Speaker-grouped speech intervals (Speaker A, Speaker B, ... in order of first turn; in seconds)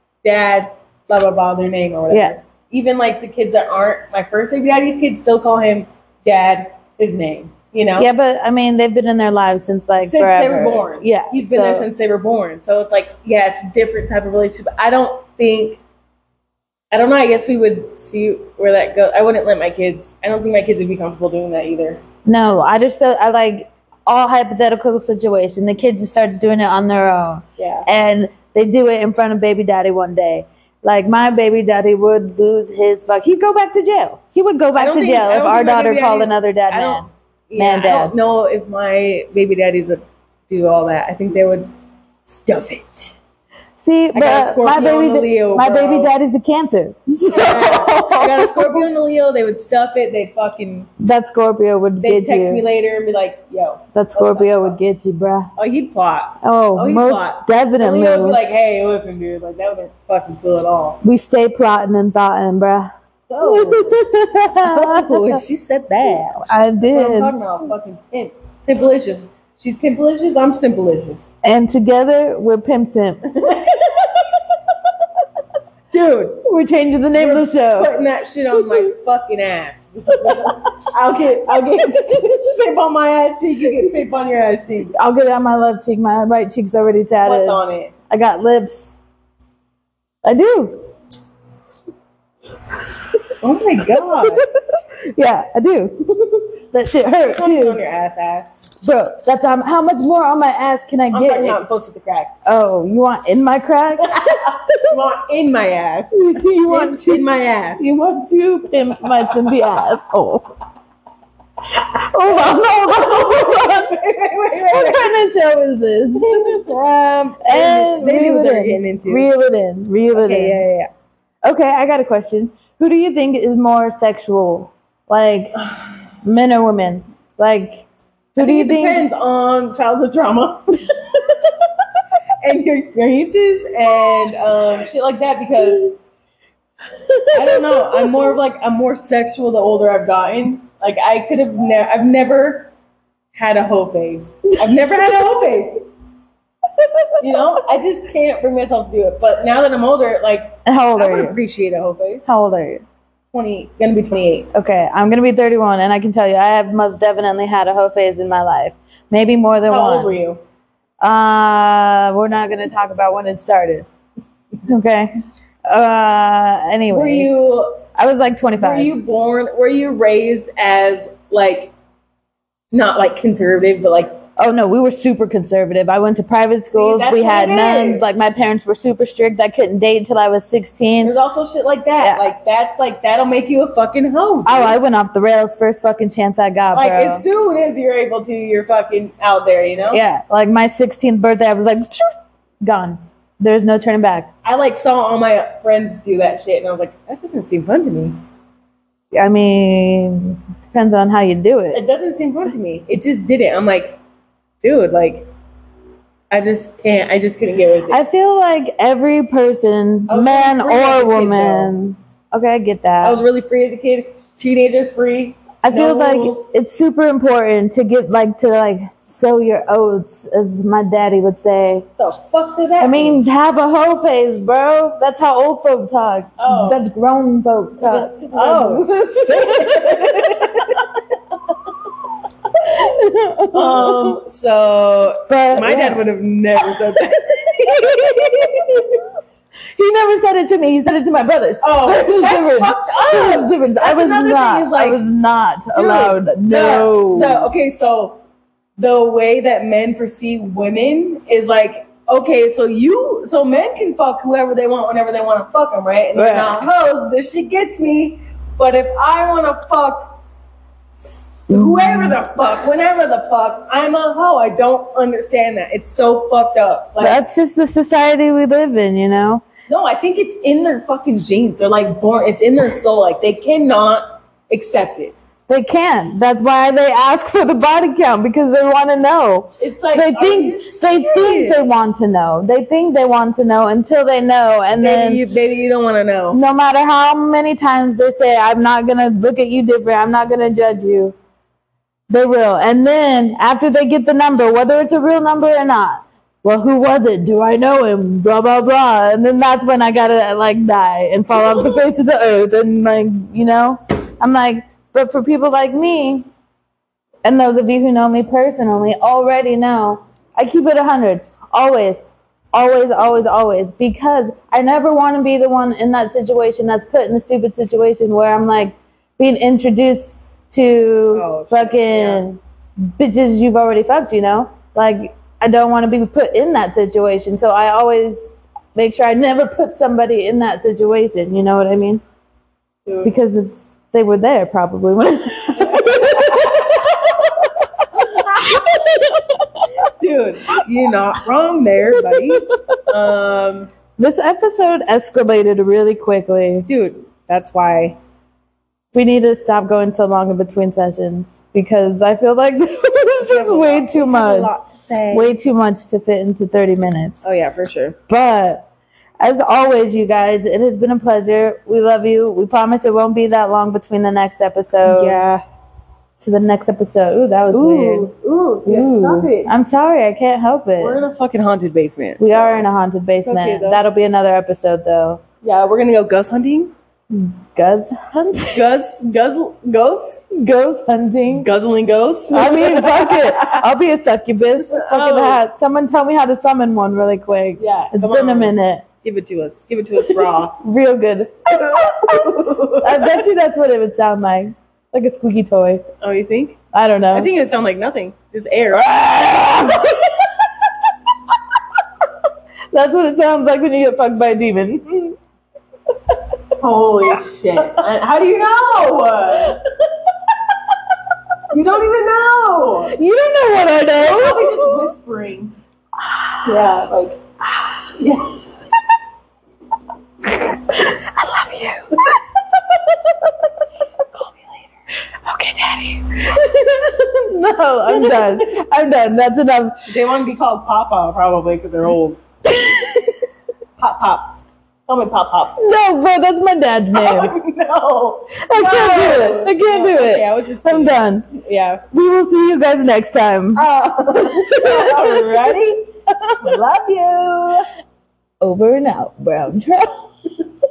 Speaker A: 0.2-8.1, 10.0-15.8, 16.9-22.0, 27.6-27.9, 34.8-41.7, 42.2-43.1, 44.1-46.1, 47.3-50.9, 52.0-54.8, 55.5-61.0, 63.3-64.0, 64.6-71.3, 73.3-74.7, 75.9-76.4, 77.1-84.9, 87.2-87.9, 93.4-94.4, 97.2-98.6, 101.1-102.3, 104.0-107.8, 109.2-109.6, 112.2-115.2, 116.2-119.3, 120.1-120.9, 128.4-131.9, 132.4-135.9, 137.3-142.7, 143.3-145.8, 147.2-152.2, 153.3-154.5, 159.7-160.4, 166.9-167.8, 168.6-171.7, 172.7-174.2, 176.7-178.1, 181.0-184.8, 186.7-190.0, 194.4-198.2, 201.7-204.0, 204.6-205.3, 206.3-208.0, 210.1-211.7, 213.0-216.5, 222.0-223.2, 226.4-226.8, 227.8-230.8, 233.5-239.0, 241.6-245.0, 245.7-248.2, 248.8-260.2, 261.5-267.2, 269.7-275.1, 279.6-281.8, 284.8-286.4, 321.1-322.2, 332.9-333.1, 335.6-337.2, 338.0-338.7, 339.8-343.7, 346.7-348.0, 353.2-355.4, 357.2-358.0, 364.8-365.4, 367.5-369.5, 370.8-372.7, 373.2-373.8, 375.4-376.7, 378.5-380.2, 381.3-383.6, 384.7-385.4, 387.6-390.6, 391.5-393.2, 396.0-396.6, 397.1-400.0, 406.6-409.6, 411.5-412.9, 413.9-415.5, 416.4-417.2, 418.0-418.4, 427.9-428.4, 429.9-432.2, 433.8-435.6, 436.9-441.8, 443.5-445.9, 446.4-447.6
Speaker B: 2.1-2.4, 8.0-11.9, 22.2-38.1, 43.8-48.9, 51.0-52.6, 53.9-55.5, 56.4-58.4, 61.0-65.4, 66.4-67.3, 71.4-73.4, 76.4-77.9, 80.1-80.7, 81.8-82.3, 84.9-88.9, 90.2-90.8, 94.0-94.5, 95.0-97.8, 98.8-101.6, 102.4-104.8, 106.1-110.5, 111.7-113.9, 114.6-116.6, 117.4-120.6, 121.4-129.0, 137.1-138.2, 150.6-151.4, 152.2-152.8, 154.5-160.1, 161.0-163.9, 164.7-165.1, 165.7-167.3, 167.9-168.9, 174.4-181.1, 182.0-182.3, 184.4-187.2, 189.9-194.3, 199.1-201.8, 207.9-213.2, 215.6-221.8, 222.8-230.2, 232.6-234.2, 235.3-236.1, 237.7-239.0, 239.7-247.4, 256.1-256.7, 261.5-262.2, 267.0-269.4, 275.5-285.2, 286.3-291.1, 292.1-306.3, 307.2-312.0, 312.5-332.0, 333.0-336.9, 337.8-339.7, 342.0-342.8, 344.0-346.7, 348.9-354.6, 355.1-357.2, 358.1-358.7, 359.2-365.2, 366.2-368.1, 368.6-371.0, 372.2-375.2, 377.1-378.6, 380.3-381.5, 382.3-388.8, 390.5-395.8, 396.7-397.3, 398.8-400.1, 402.7-405.2, 412.9-414.9, 416.1-416.5, 420.2-423.4, 425.2-429.9, 432.5-433.1, 435.6-437.3, 438.3-441.3, 441.9-443.6, 444.1-445.4, 446.1-446.4, 448.4-450.1